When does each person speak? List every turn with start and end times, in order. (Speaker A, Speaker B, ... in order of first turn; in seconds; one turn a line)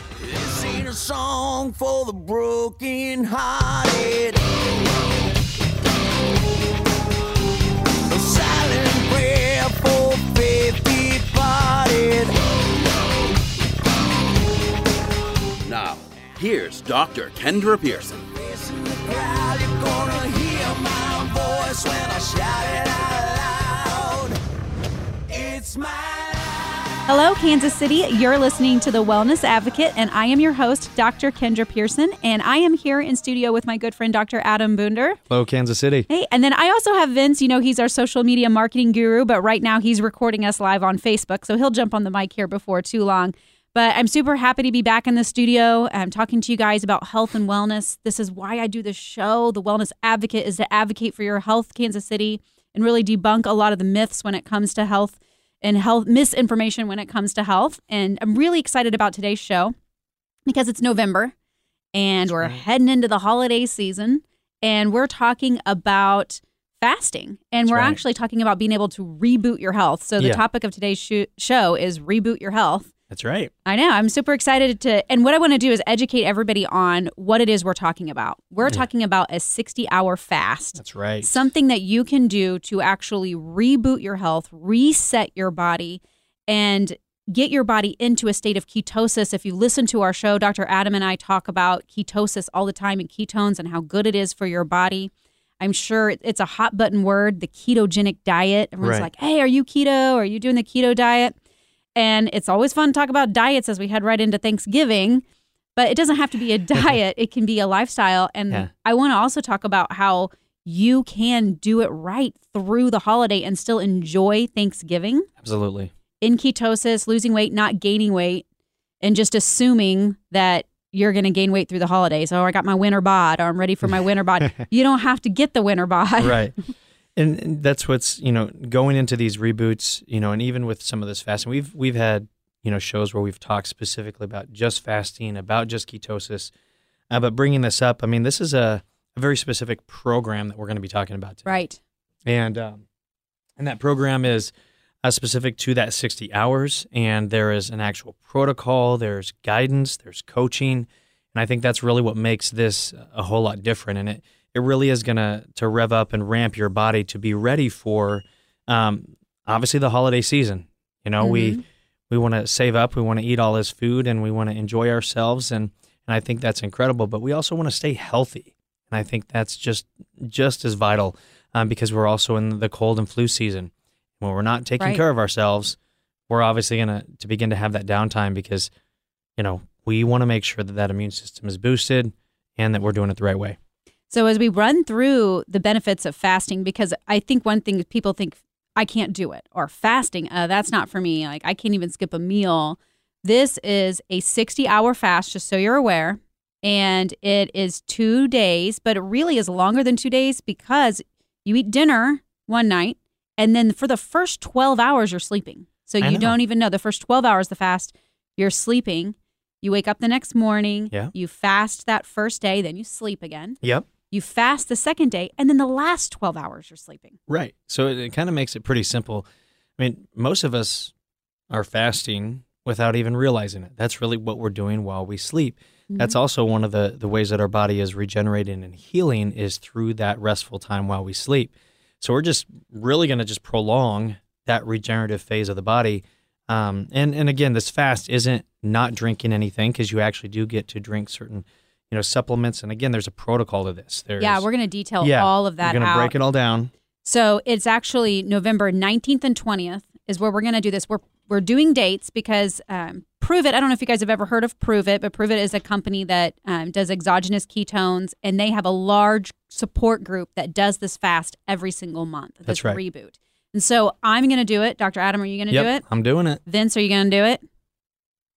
Speaker A: 0.2-4.4
Speaker A: 8.1-12.4
Speaker B: 15.6-18.2
Speaker A: 18.3-24.4
Speaker A: 25.3-27.0
Speaker C: 27.1-35.2
Speaker D: 35.3-36.1
Speaker C: 36.1-59.7
Speaker C: 60.5-61.3
Speaker C: 61.9-72.9
Speaker D: 67.7-68.0
Speaker D: 73.1-73.5
Speaker C: 73.7-101.3
Speaker D: 80.8-81.4
Speaker D: 98.8-99.1
Speaker C: 102.0-105.2
Speaker C: 105.8-115.3
Speaker D: 115.4-115.9
Speaker C: 116.2-118.4
Speaker C: 119.0-126.4
Speaker D: 126.2-126.6
Speaker D: 127.2-136.5
Speaker D: 137.1-141.5
Speaker C: 141.4-141.8
Speaker D: 142.2-142.8
Speaker D: 143.6-144.5
Speaker D: 145.0-175.8
Speaker C: 161.2-161.6
Speaker D: 176.3-178.7
Speaker D: 179.4-183.6
Speaker C: 184.1-217.2
Speaker D: 206.0-206.3
Speaker D: 217.3-219.2
Speaker D: 219.8-220.9
Speaker D: 221.5-244.4
Speaker C: 244.2-246.1
Speaker D: 245.0-246.7
Speaker C: 247.0-265.8
Speaker D: 262.5-262.8
Speaker D: 265.5-266.4
Speaker C: 266.4-267.4